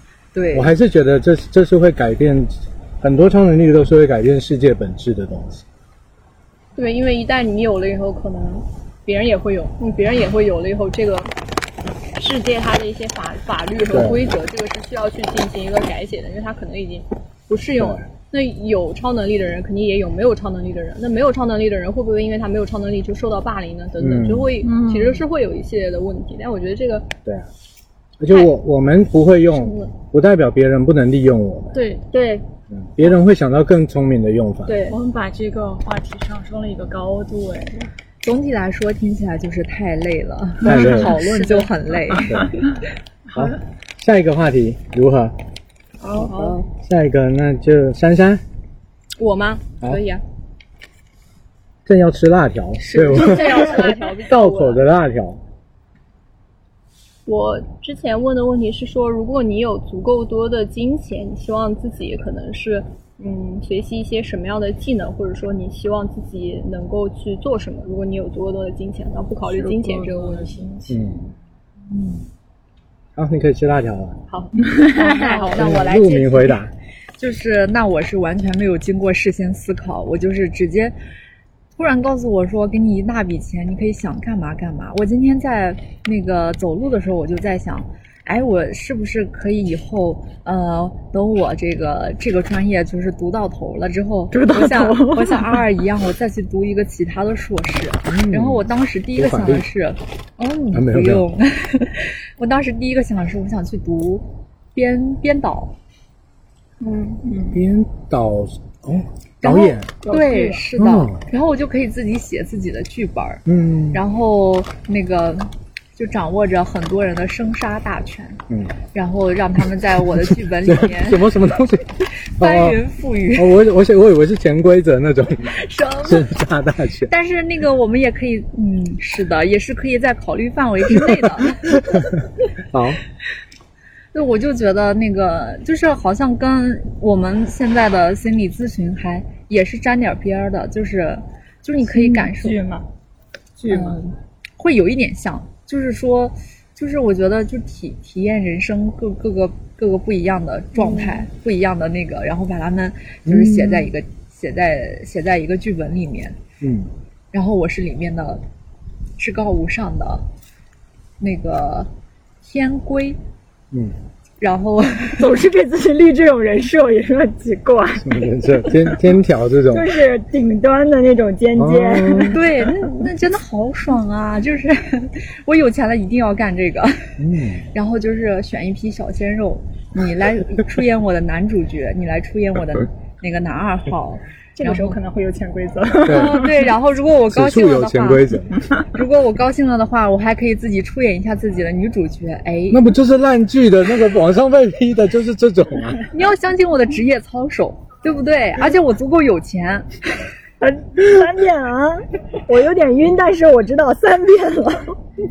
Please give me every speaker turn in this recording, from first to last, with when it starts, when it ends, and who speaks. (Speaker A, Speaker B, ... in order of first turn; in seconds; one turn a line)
Speaker A: 0.3-0.7
Speaker B: 0.5-5.6
Speaker C: 6.8-11.3
Speaker C: 12.2-27.1
Speaker B: 13.9-14.2
Speaker B: 17.8-18.1
Speaker B: 24.0-24.5
Speaker D: 24.6-25.2
Speaker B: 28.2-31.8
Speaker C: 29.5-29.9
Speaker C: 31.7-32.4
Speaker B: 32.7-34.8
Speaker C: 34.7-34.9
Speaker D: 34.8-37.9
Speaker A: 38.2-42.6
Speaker B: 40.6-41.2
Speaker C: 41.0-41.7
Speaker B: 42.3-42.5
Speaker B: 43.3-45.4
Speaker D: 46.0-46.5
Speaker A: 46.2-46.5
Speaker C: 46.2-46.6
Speaker B: 46.8-48.4
Speaker C: 49.2-50.2
Speaker B: 51.9-55.4
Speaker C: 52.8-54.8
Speaker C: 57.2-70.7
Speaker D: 69.5-71.3
Speaker B: 70.9-71.2
Speaker B: 73.2-74.2
Speaker C: 74.3-76.6
Speaker D: 74.6-75.5
Speaker A: 75.0-76.0
Speaker B: 75.5-76.7
Speaker A: 77.2-80.9
Speaker A: 81.8-105.7
Speaker D: 94.3-95.7
Speaker B: 98.1-99.7
Speaker B: 100.7-101.3
Speaker D: 106.8-107.6
Speaker B: 107.5-109.9
Speaker A: 109.4-118.4
Speaker D: 110.0-110.7
Speaker B: 110.8-111.2
Speaker B: 113.5-114.0
Speaker B: 118.5-118.7
Speaker A: 118.9-121.3
Speaker B: 120.6-122.8
Speaker A: 122.3-123.6
Speaker B: 123.3-127.1
Speaker A: 125.4-126.3
Speaker A: 127.1-132.1
Speaker B: 131.7-132.1
Speaker B: 132.7-133.0
Speaker A: 134.1-142.6
Speaker D: 141.8-142.9
Speaker D: 143.6-144.1
Speaker A: 143.7-156.4
Speaker D: 150.8-151.1
Speaker B: 153.2-153.9
Speaker B: 156.6-156.9
Speaker A: 157.3-158.4
Speaker A: 159.2-160.2
Speaker A: 161.2-161.9
Speaker A: 162.4-163.2
Speaker A: 164.4-165.3
Speaker D: 165.1-168.2
Speaker B: 168.0-169.9
Speaker D: 169.7-172.4
Speaker B: 171.6-172.4
Speaker A: 172.3-185.0
Speaker B: 177.2-177.7
Speaker D: 184.6-186.7
Speaker A: 186.0-192.9
Speaker B: 186.0-186.4
Speaker B: 187.3-188.7
Speaker B: 192.7-196.1
Speaker A: 196.1-199.9
Speaker D: 200.6-205.0